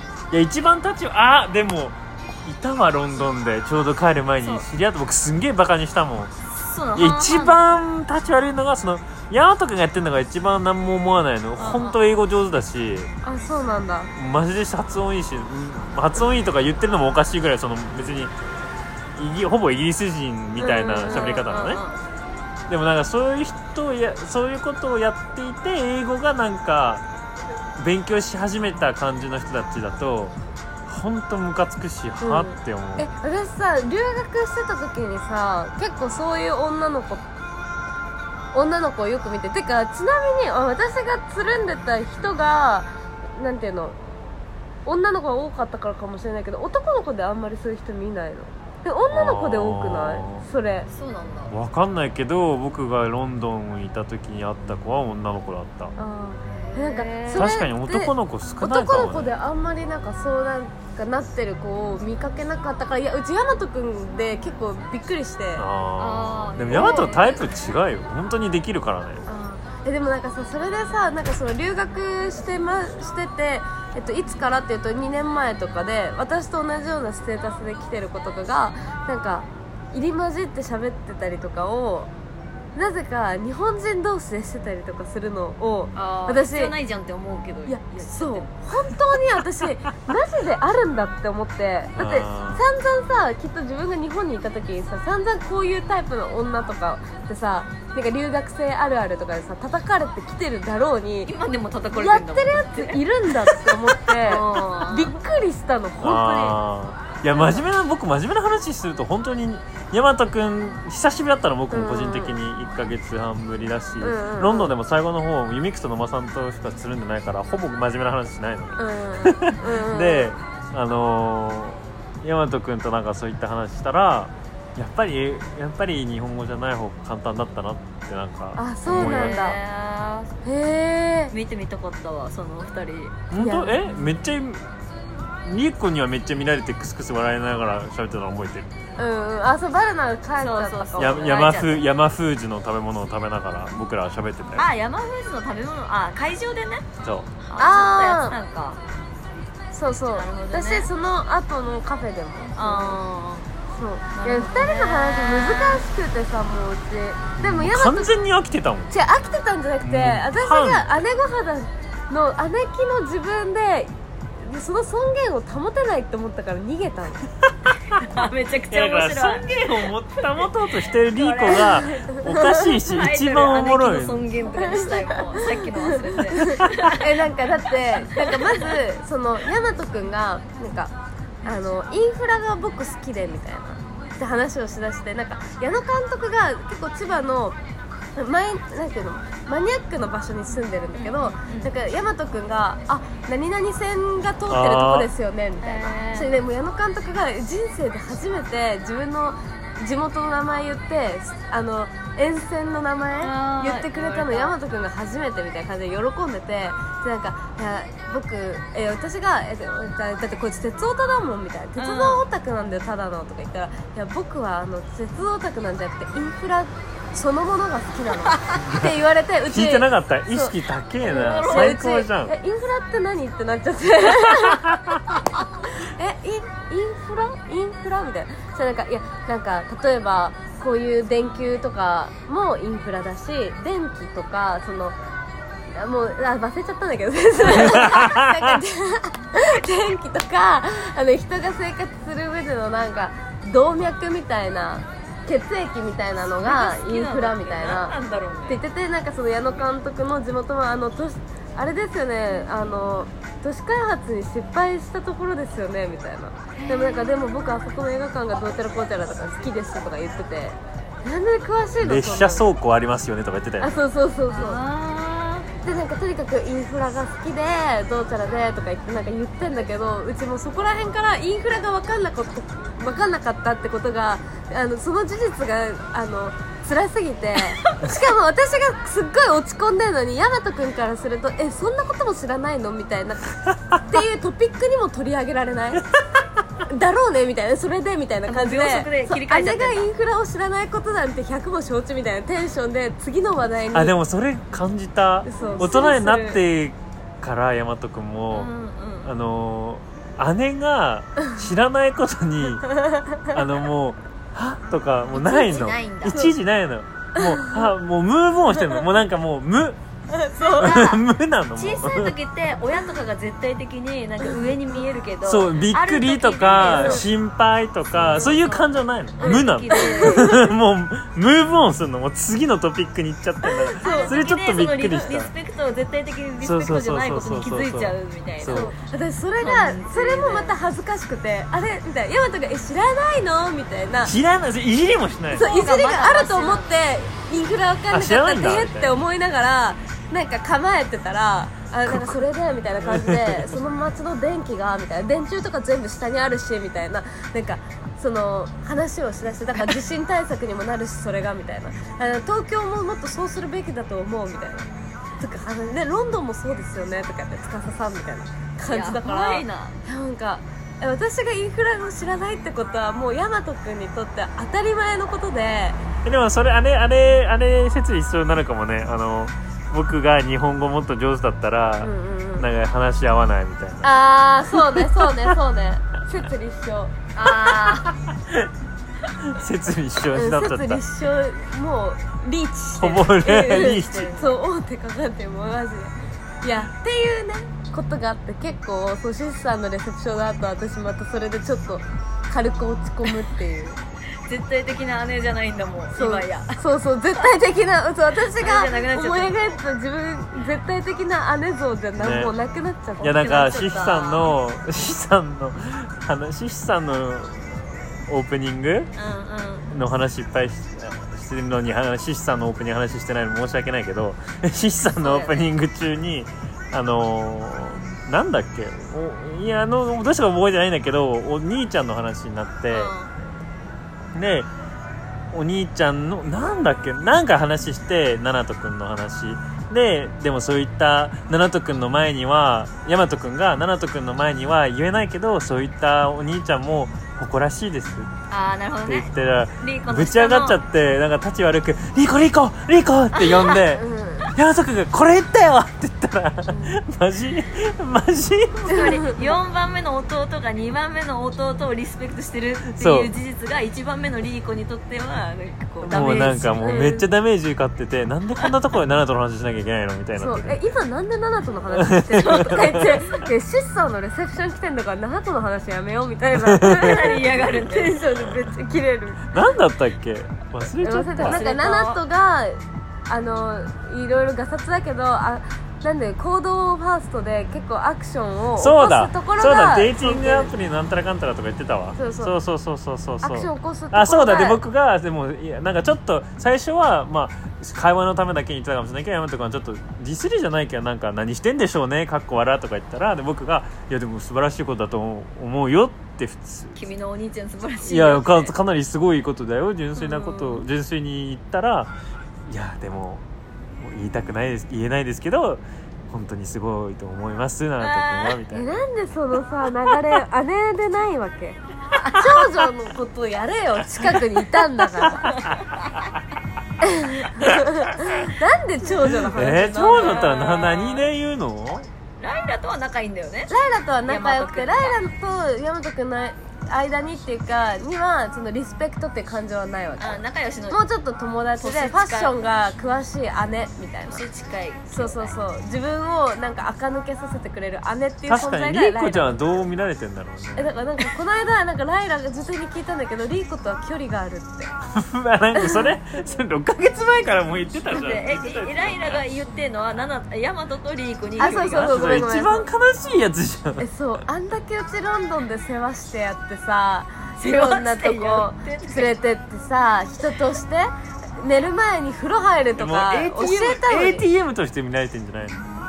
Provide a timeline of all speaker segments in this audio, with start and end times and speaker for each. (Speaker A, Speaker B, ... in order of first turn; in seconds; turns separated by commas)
Speaker A: 0.3-6.3, Speaker B: 4.4-4.7, Speaker B: 6.5-7.6, Speaker A: 7.0-13.1, Speaker B: 11.6-11.9, Speaker C: 13.2-14.1, Speaker A: 14.1-18.3, Speaker A: 19.1-21.8, Speaker C: 20.6-21.4, Speaker B: 21.0-22.0, Speaker A: 22.7-27.0, Speaker A: 27.8-33.1, Speaker C: 32.2-37.2, Speaker C: 38.5-44.0, Speaker C: 44.9-50.9, Speaker A: 49.1-50.4, Speaker B: 50.9-51.5, Speaker A: 51.5-55.9, Speaker C: 56.0-65.7, Speaker B: 56.5-57.5, Speaker A: 57.3-59.3, Speaker A: 65.5-69.2, Speaker B: 66.0-67.5, Speaker C: 66.7-67.3, Speaker C: 69.2-82.1, Speaker C: 82.7-86.7, Speaker B: 85.9-88.6, Speaker C: 87.7-101.3, Speaker A: 91.9-92.6, Speaker B: 101.2-103.0, Speaker C: 101.9-106.6, Speaker A: 103.5-103.8, Speaker B: 104.3-105.2, Speaker A: 106.0-129.4, Speaker C: 107.3-107.6, Speaker C: 111.7-112.4, Speaker C: 114.0-114.7, Speaker C: 118.8-120.3, Speaker C: 128.6-129.6, Speaker B: 128.9-130.3, Speaker C: 130.4-131.3, Speaker B: 131.3-133.2, Speaker A: 133.3-134.6, Speaker C: 133.3-134.1, Speaker A: 135.4-138.7, Speaker C: 139.0-141.4, Speaker B: 140.4-141.8, Speaker A: 141.0-144.6, Speaker B: 144.5-146.9, Speaker A: 147.0-147.3, Speaker B: 147.4-148.8, Speaker C: 147.6-148.3, Speaker C: 149.7-153.0, Speaker B: 150.1-150.9, Speaker B: 152.6-153.5, Speaker C: 153.7-158.2, Speaker B: 154.1-155.8, Speaker A: 157.4-158.9, Speaker C: 158.9-167.2, Speaker A: 159.8-160.9, Speaker A: 167.7-168.0, Speaker B: 168.0-169.6, Speaker A: 168.7-174.2, Speaker B: 170.2-170.5, Speaker B: 171.1-171.7, Speaker C: 171.6-172.8, Speaker B: 172.9-177.1, Speaker C: 174.6-180.9, Speaker A: 176.6-176.9, Speaker B: 178.1-178.7, Speaker C: 181.4-187.6, Speaker C: 188.2-224.7, Speaker B: 190.9-191.7, Speaker A: 194.5-195.1, Speaker B: 195.6-196.3, Speaker B: 203.2-204.5, Speaker B: 211.8-212.2, Speaker B: 218.3-218.6, Speaker A: 218.6-218.9, Speaker A: 219.4-222.3, Speaker B: 221.1-221.8, Speaker A: 224.5-225.0, Speaker C: 225.8-234.9, Speaker C: 235.7-247.9, Speaker A: 237.5-238.6, Speaker B: 246.4-248.6, Speaker C: 248.5-262.5, Speaker B: 256.6-257.3, Speaker A: 261.8-263.8, Speaker C: 263.6-264.6, Speaker B: 264.4-265.5, Speaker C: 265.6-285.8, Speaker C: 286.7-293.9, Speaker B: 288.2-289.8, Speaker A: 293.7-298.5, Speaker C: 295.2-296.4, Speaker B: 298.3-299.1, Speaker A: 299.0-302.6, Speaker C: 302.6-303.4, Speaker A: 303.3-309.8, Speaker B: 305.1-306.2, Speaker C: 305.2-306.3, Speaker C: 307.1-307.7, Speaker C: 308.6-308.9, Speaker C: 310.1-310.9, Speaker B: 310.4-311.0, Speaker A: 310.6-312.1, Speaker B: 311.5-317.1, Speaker A: 315.2-325.3, Speaker C: 316.6-317.0, Speaker B: 317.9-318.6, Speaker C: 318.1-318.4, Speaker B: 319.2-320.3, Speaker C: 319.2-320.4, Speaker C: 323.4-324.2, Speaker B: 323.8-328.7, Speaker A: 326.4-328.7, Speaker C: 328.5-334.1, Speaker B: 329.4-330.5, Speaker A: 334.0-335.4, Speaker C: 335.3-365.8, Speaker B: 335.4-336.8, Speaker A: 337.9-339.0, Speaker A: 341.9-342.2, Speaker A: 342.8-343.5, Speaker B: 358.7-359.8, Speaker A: 366.0-373.9, Speaker C: 371.8-372.5, Speaker C: 373.8-377.0, Speaker A: 374.5-375.4, Speaker B: 377.1-377.9, Speaker A: 377.5-378.5, Speaker A: 379.2-380.8, Speaker C: 380.1-393.8, Speaker A: 382.8-384.1, Speaker B: 383.6-384.4, Speaker B: 394.2-396.6, Speaker C: 395.9-403.5, Speaker B: 398.3-399.4, Speaker A: 401.9-402.3, Speaker B: 403.0-404.3, Speaker A: 403.0-408.9, Speaker B: 408.9-409.7, Speaker A: 409.7-422.9, Speaker B: 414.9-415.4, Speaker B: 422.7-423.1, Speaker A: 424.1-424.5, Speaker A: 425.3-438.1, Speaker B: 438.3-440.6, Speaker A: 438.9-448.9, Speaker B: 443.1-443.6, Speaker C: 443.7-444.3, Speaker C: 446.5-446.8, Speaker B: 448.6-456.9, Speaker C: 448.7-449.2, Speaker A: 452.8-453.1, Speaker C: 455.8-457.0, Speaker A: 455.9-460.6, Speaker C: 460.2-469.4, Speaker A: 461.7-462.7, Speaker B: 462.2-463.2, Speaker A: 466.4-467.1, Speaker B: 466.6-468.0, Speaker A: 469.3-471.4, Speaker C: 470.8-480.5, Speaker B: 471.2-472.0, Speaker A: 478.6-496.8, Speaker C: 481.9-482.3, Speaker C: 483.2-484.6, Speaker B: 496.7-498.5, Speaker A: 497.8-501.9, Speaker C: 500.0-500.6, Speaker A: 502.5-503.2, Speaker A: 503.8-508.8, Speaker B: 507.8-508.4, Speaker C: 508.5-511.6, Speaker C: 512.1-515.3, Speaker A: 514.0-514.2, Speaker A: 515.0-516.0, Speaker B: 515.2-516.0, Speaker C: 516.8-520.3, Speaker A: 519.2-521.9, Speaker B: 519.8-521.0, Speaker B: 522.2-523.5, Speaker C: 523.5-534.2, Speaker B: 524.1-525.0, Speaker B: 530.0-530.8, Speaker B: 531.6-532.3, Speaker B: 534.0-535.4, Speaker C: 534.9-539.4, Speaker A: 538.3-541.0, Speaker C: 540.5-544.7, Speaker A: 544.9-549.2, Speaker C: 545.5-545.9, Speaker B: 547.9-552.2, Speaker C: 551.4-552.7, Speaker A: 551.8-553.9, Speaker C: 553.8-564.3, Speaker B: 557.4-559.2, Speaker A: 562.8-565.6